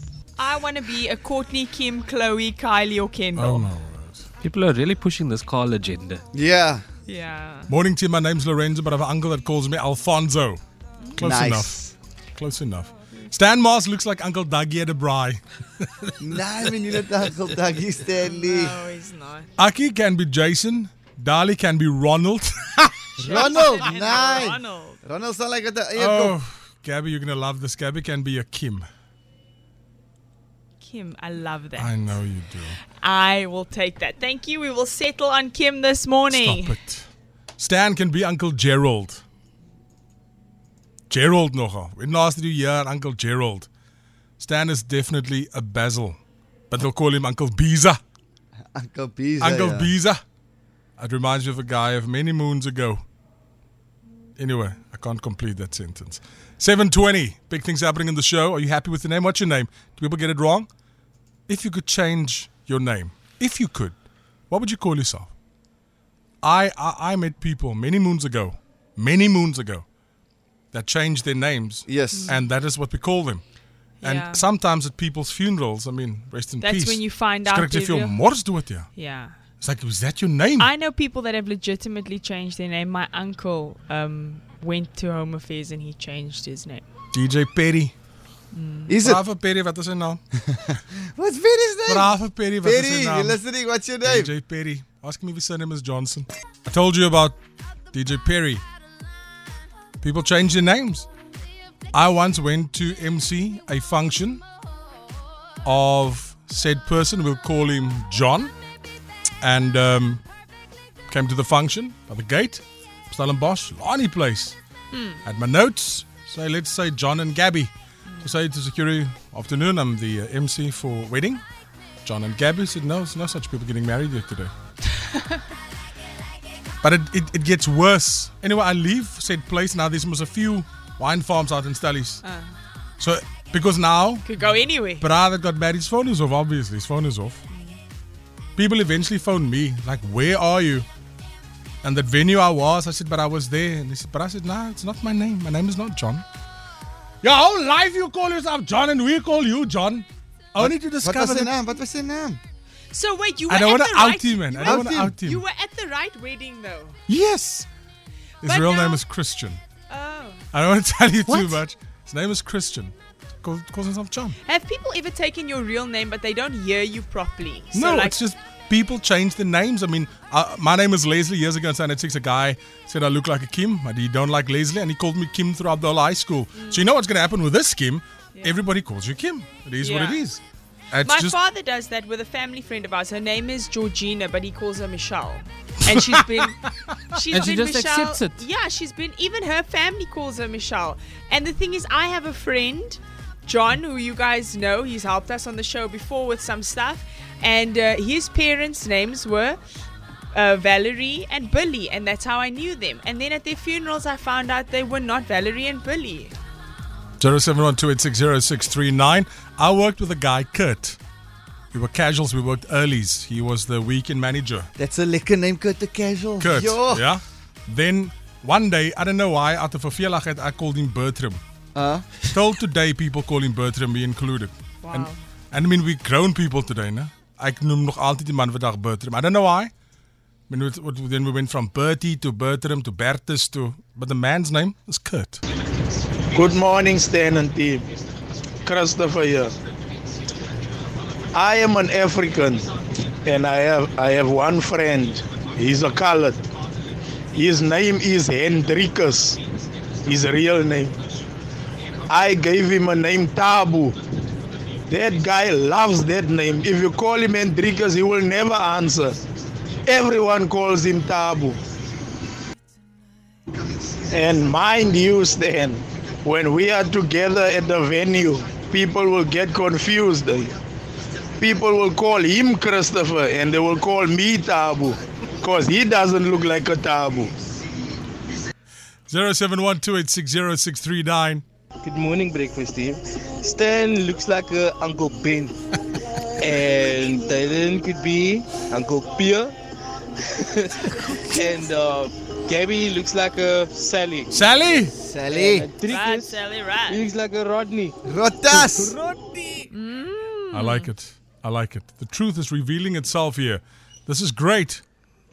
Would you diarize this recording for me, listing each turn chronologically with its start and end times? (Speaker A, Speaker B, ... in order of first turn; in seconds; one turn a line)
Speaker A: 0.4-3.7
Speaker B: 3.4-4.2
Speaker C: 4.4-6.2
Speaker D: 6.3-6.8
Speaker A: 7.0-7.7
Speaker B: 7.7-10.6
Speaker B: 11.2-16.1
Speaker D: 11.2-11.8
Speaker D: 16.2-18.8
Speaker A: 18.2-19.5
Speaker B: 19.6-23.5
Speaker D: 23.2-26.4
Speaker A: 23.2-25.0
Speaker B: 25.9-28.9
Speaker A: 30.8-32.2
Speaker B: 31.8-32.8
Speaker A: 32.9-36.8
Speaker B: 36.3-39.2
Speaker B: 41.1-43.7
Speaker B: 44.4-46.2
Speaker B: 46.7-48.0
Speaker D: 48.7-49.9
Speaker B: 49.4-50.2
Speaker B: 51.0-53.0
Speaker B: 54.4-60.7
Speaker B: 61.5-64.0
Speaker B: 64.5-65.3
Speaker B: 66.4-69.8
Speaker B: 70.7-73.4
Speaker D: 71.9-72.3
Speaker A: 72.1-72.4
Speaker A: 74.0-74.4
Speaker B: 74.0-78.9
Speaker A: 76.6-78.2
Speaker A: 78.9-79.4
Speaker B: 79.6-80.7
Speaker A: 80.6-86.8
Speaker B: 87.1-87.9
Speaker A: 88.5-89.0
Speaker D: 88.9-89.2
Speaker B: 89.0-90.2
Speaker D: 90.3-94.3
Speaker B: 91.9-93.4
Speaker B: 94.0-97.4
Speaker B: 97.9-98.6
Speaker B: 100.0-101.1
Speaker B: 101.9-104.4
Speaker B: 105.6-108.5
Speaker B: 109.4-110.2
Speaker B: 111.1-114.6
Speaker A: 114.9-115.2
Speaker B: 115.2-117.7
Speaker B: 118.2-121.4
Speaker B: 122.0-124.5
Speaker B: 126.8-132.2
Speaker A: 132.2-132.6
Speaker B: 133.0-134.3
Speaker A: 134.2-135.0
Speaker B: 135.0-137.4
Speaker A: 137.5-137.8
Speaker B: 138.6-140.9
Speaker B: 141.8-146.2
Speaker B: 147.2-151.5
Speaker D: 150.6-152.4
Speaker A: 152.9-157.0
Speaker B: 153.5-155.4
Speaker D: 154.6-155.2
Speaker B: 157.1-157.7
Speaker B: 158.4-159.6
Speaker A: 158.4-159.0
Speaker A: 159.9-160.4
Speaker B: 160.5-164.4
Speaker A: 164.4-168.2
Speaker B: 167.7-180.4
Speaker A: 176.5-176.8
Speaker A: 178.3-178.6
Speaker A: 179.8-180.2
Speaker B: 180.9-181.3
Speaker A: 181.0-186.6
Speaker A: 187.1-199.6
Speaker C: 187.3-188.4
Speaker A: 200.3-206.3
Speaker B: 207.2-211.0
Speaker B: 211.7-214.7
Speaker D: 214.8-217.0
Speaker B: 216.4-221.4
Speaker D: 221.7-222.1
Speaker B: 222.2-229.7
Speaker A: 224.8-225.2
Speaker B: 230.5-235.4
Speaker E: 236.3-237.8
Speaker E: 238.7-239.5
Speaker E: 241.3-242.6
Speaker E: 243.2-246.4
Speaker E: 247.3-249.4
Speaker E: 250.1-250.9
Speaker E: 252.1-253.9
Speaker E: 254.9-259.1
Speaker E: 259.9-261.6
Speaker E: 264.1-270.5
Speaker E: 271.4-277.3
Speaker B: 279.1-281.4
Speaker F: 281.8-285.6
Speaker F: 286.4-289.5
Speaker F: 290.6-294.4
Speaker B: 294.3-294.9
Speaker D: 295.0-295.7
Speaker F: 295.2-299.7
Speaker A: 295.9-297.0
Speaker D: 298.1-299.0
Speaker A: 299.7-300.9
Speaker B: 300.5-304.8